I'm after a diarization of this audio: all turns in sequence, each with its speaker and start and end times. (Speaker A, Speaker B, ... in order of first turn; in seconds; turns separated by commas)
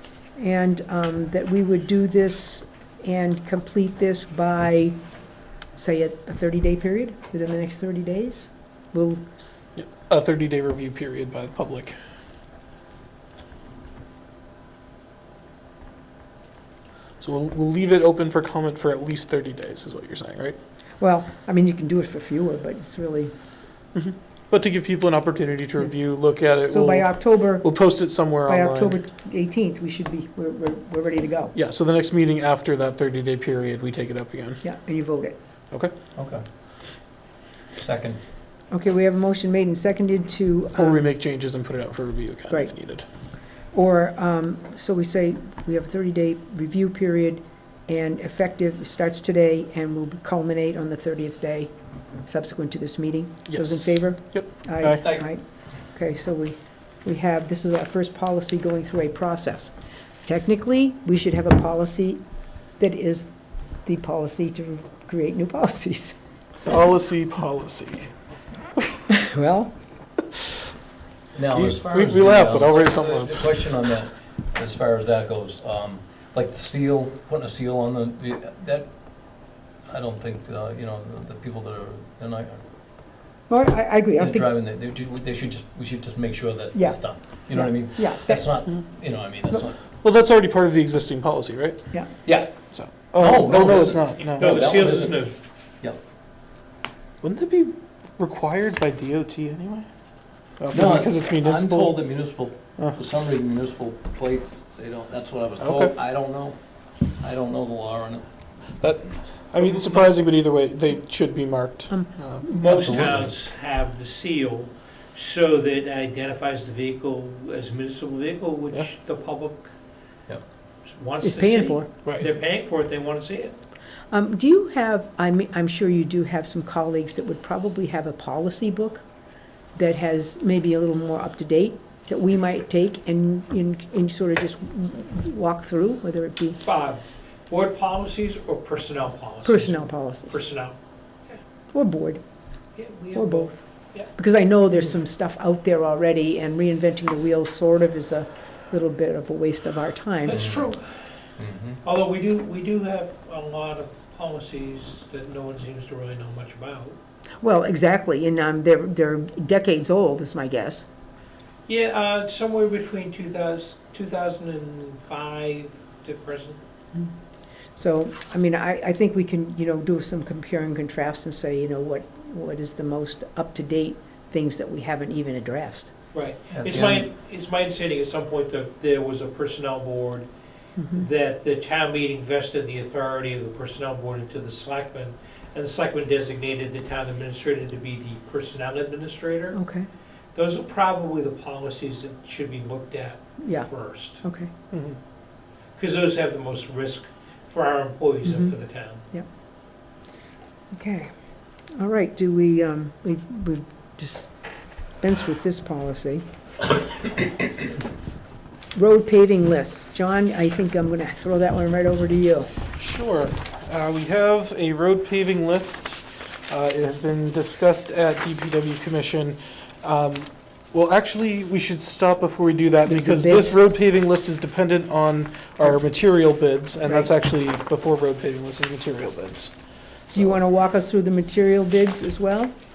Speaker A: 0.4-4.9, Speaker A: 5.7-9.2, Speaker B: 9.8-12.0, Speaker B: 17.2-20.6, Speaker A: 21.0-23.3, Speaker B: 23.9-29.0, Speaker A: 26.7-27.8, Speaker A: 28.4-31.5, Speaker B: 31.5-34.6, Speaker A: 34.6-35.4, Speaker C: 36.1-36.4, Speaker C: 37.8-38.2, Speaker A: 38.7-41.1, Speaker B: 40.8-43.0, Speaker A: 43.7-51.7, Speaker A: 52.2-55.4, Speaker B: 53.5-55.1, Speaker C: 55.0-55.3, Speaker A: 55.9-59.7, Speaker A: 60.2-62.2, Speaker A: 62.8-63.3, Speaker A: 63.8-66.2, Speaker B: 66.7-68.1, Speaker A: 69.1-69.7, Speaker C: 71.3-79.3, Speaker B: 71.5-73.5, Speaker C: 79.8-82.6, Speaker A: 83.5-84.5, Speaker C: 84.2-89.7, Speaker A: 86.7-88.5, Speaker B: 90.0-91.9, Speaker C: 92.2-92.5, Speaker B: 92.7-94.7, Speaker C: 93.2-95.2, Speaker D: 94.4-95.3, Speaker B: 97.2-99.9, Speaker B: 100.6-102.1, Speaker C: 100.7-106.6, Speaker B: 105.6-105.9, Speaker C: 107.2-108.2, Speaker B: 108.8-112.4, Speaker D: 109.6-110.1, Speaker D: 112.4-119.7, Speaker C: 112.6-113.3, Speaker D: 120.8-123.5, Speaker A: 121.2-121.9, Speaker A: 124.1-129.0, Speaker A: 129.7-136.6, Speaker D: 136.6-140.7, Speaker A: 139.4-140.4, Speaker A: 141.7-142.2, Speaker D: 142.8-144.1, Speaker A: 143.1-150.4, Speaker D: 150.2-150.9, Speaker C: 150.3-150.6, Speaker C: 151.4-151.8, Speaker D: 151.8-157.0, Speaker A: 157.4-160.8, Speaker D: 161.7-166.6, Speaker A: 167.8-175.9, Speaker D: 176.1-180.3, Speaker C: 176.5-177.1, Speaker A: 180.8-181.1, Speaker D: 180.9-189.6, Speaker A: 189.5-189.9, Speaker D: 190.3-194.2, Speaker A: 193.4-193.7, Speaker A: 194.2-194.5, Speaker B: 194.7-195.0, Speaker D: 195.8-199.0, Speaker A: 198.2-198.5, Speaker A: 200.7-201.1, Speaker A: 201.8-204.3, Speaker A: 205.0-206.2, Speaker A: 208.7-212.5, Speaker B: 212.8-229.5, Speaker A: 222.8-223.6, Speaker B: 230.1-230.4, Speaker A: 230.1-232.5